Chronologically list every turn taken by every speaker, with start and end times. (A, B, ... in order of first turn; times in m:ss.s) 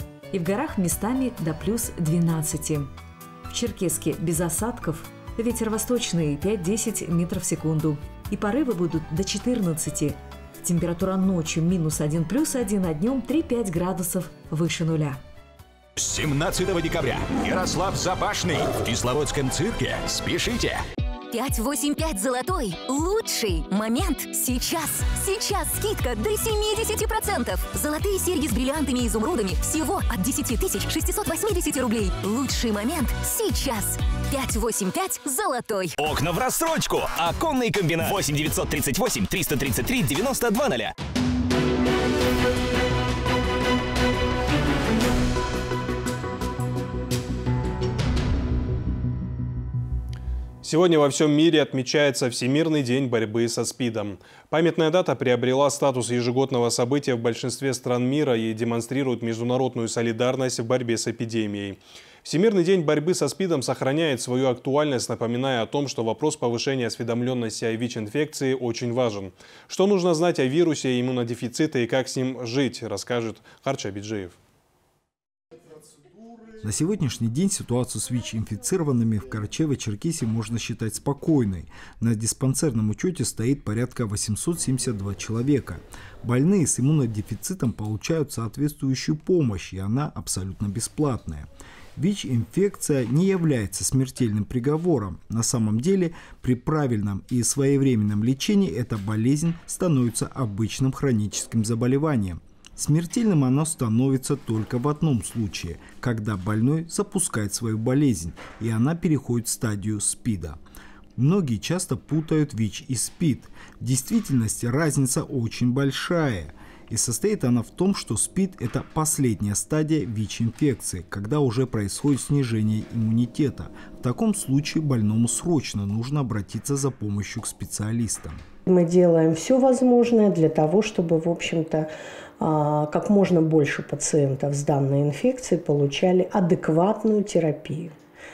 0:00.3-0:02.9 A
0:03.5-0:15.2 A
0:16.0-0:20.9 B
0:21.3-0:35.9 C
0:36.0-0:40.9 B
0:50.6-1:14.4 D
1:16.6-1:50.6 E
1:51.2-2:08.4 E
2:08.6-2:17.9 F